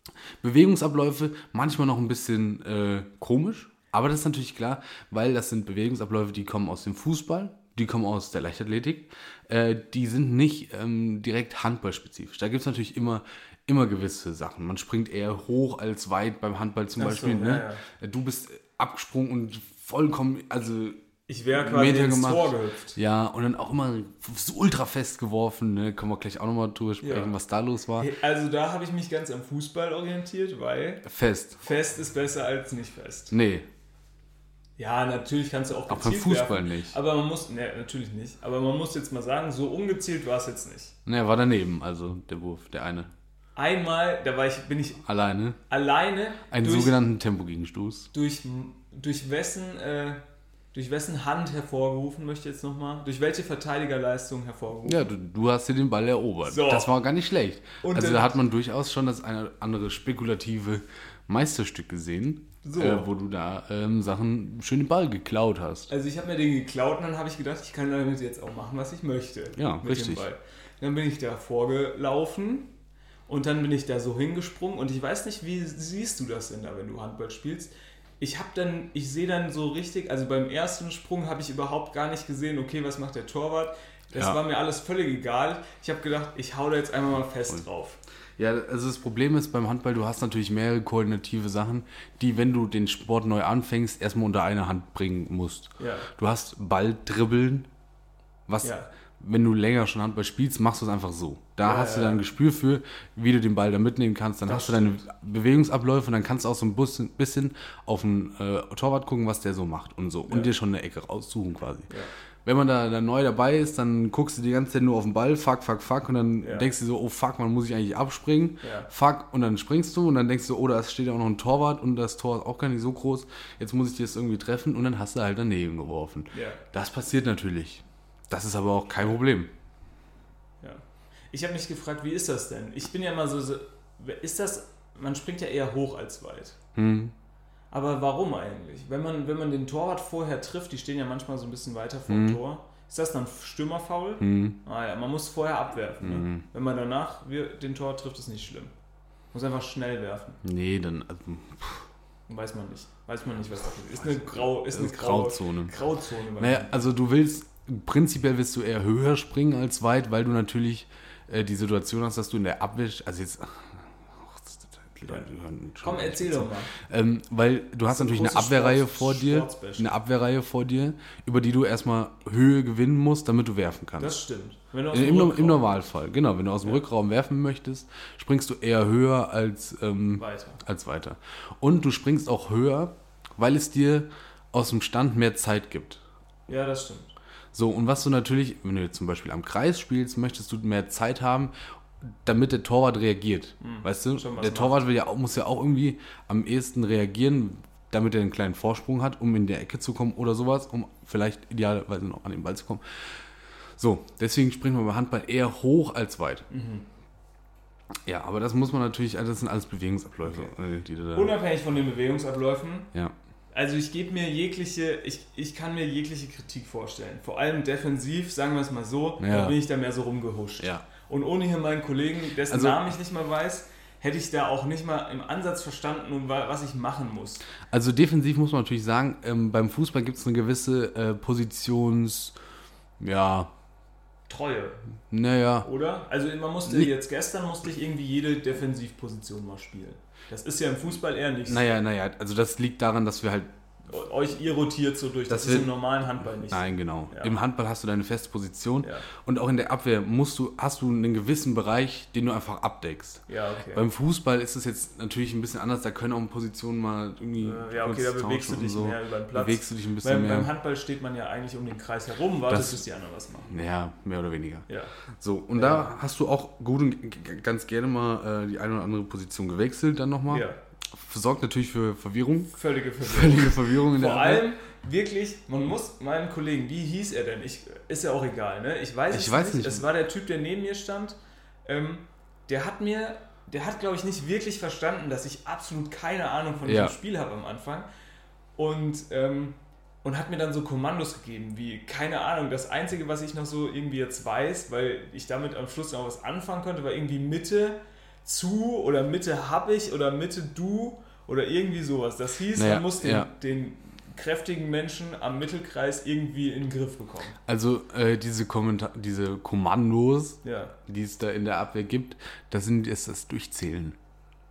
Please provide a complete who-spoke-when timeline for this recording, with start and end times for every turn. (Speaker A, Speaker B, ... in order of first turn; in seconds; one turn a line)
Speaker A: 0.4-21.0
Speaker B: 17.0-17.8
Speaker B: 21.3-23.0
Speaker A: 21.5-28.1
Speaker B: 27.0-27.3
Speaker B: 28.0-31.0
Speaker A: 31.0-31.6
Speaker B: 31.6-33.3
Speaker A: 33.3-33.7
Speaker B: 34.8-41.0
Speaker A: 35.9-36.9
Speaker A: 41.0-43.1
Speaker B: 43.5-45.0
Speaker A: 45.0-45.6
Speaker B: 45.7-47.0
Speaker A: 46.5-48.1
Speaker B: 48.1-50.2
Speaker B: 50.7-55.1
Speaker A: 54.8-65.9
Speaker B: 56.4-56.9
Speaker B: 57.8-58.4
Speaker B: 62.6-63.1
Speaker B: 65.9-72.7
Speaker A: 69.5-70.2
Speaker B: 73.3-88.0
Speaker A: 88.4-97.7
Speaker B: 95.8-96.1
Speaker A: 98.5-111.9
Speaker B: 98.6-98.9
Speaker B: 101.6-102.2
Speaker B: 104.4-105.0
Speaker A: 112.4-129.5
Speaker B: 116.4-116.7
Speaker B: 118.6-118.9
Speaker B: 126.3-126.6
Speaker B: 130.6-136.6
Speaker A: 136.7-137.1
Speaker B: 137.7-148.7
Speaker A: 142.1-142.4
Speaker A: 144.2-144.6
Speaker A: 146.0-146.4
Speaker B: 149.3-150.4
Speaker A: 150.4-151.8
Speaker B: 152.3-156.9
Speaker A: 154.0-155.7
Speaker A: 156.4-174.1
Speaker B: 165.8-166.7
Speaker B: 167.9-169.9
Speaker B: 174.0-175.8
Speaker A: 174.9-186.0
Speaker B: 180.1-180.6
Speaker B: 186.5-187.1
Speaker A: 187.5-203.2
Speaker B: 193.6-194.8
Speaker A: 203.8-206.5
Speaker B: 206.5-206.9
Speaker A: 208.0-211.3
Speaker B: 210.2-210.5
Speaker B: 211.1-212.9
Speaker B: 213.5-227.4
Speaker A: 219.2-219.6
Speaker A: 220.6-220.8
Speaker A: 222.5-222.8
Speaker A: 227.7-232.3
Speaker A: 233.0-233.5
Speaker B: 234.3-234.8
Speaker A: 235.1-235.7
Speaker B: 235.6-241.6
Speaker A: 241.4-243.5
Speaker B: 243.9-247.3
Speaker A: 245.3-245.7
Speaker A: 246.5-260.5
Speaker B: 253.3-253.8
Speaker B: 257.4-263.5
Speaker A: 262.5-262.8
Speaker A: 263.5-264.7
Speaker B: 264.7-264.9
Speaker A: 265.2-274.5
Speaker B: 265.5-265.9
Speaker B: 270.3-270.6
Speaker B: 272.5-287.9
Speaker A: 279.1-279.9
Speaker A: 286.6-286.9
Speaker B: 288.6-307.4
Speaker A: 302.5-303.3
Speaker A: 307.4-314.0
Speaker B: 310.4-310.8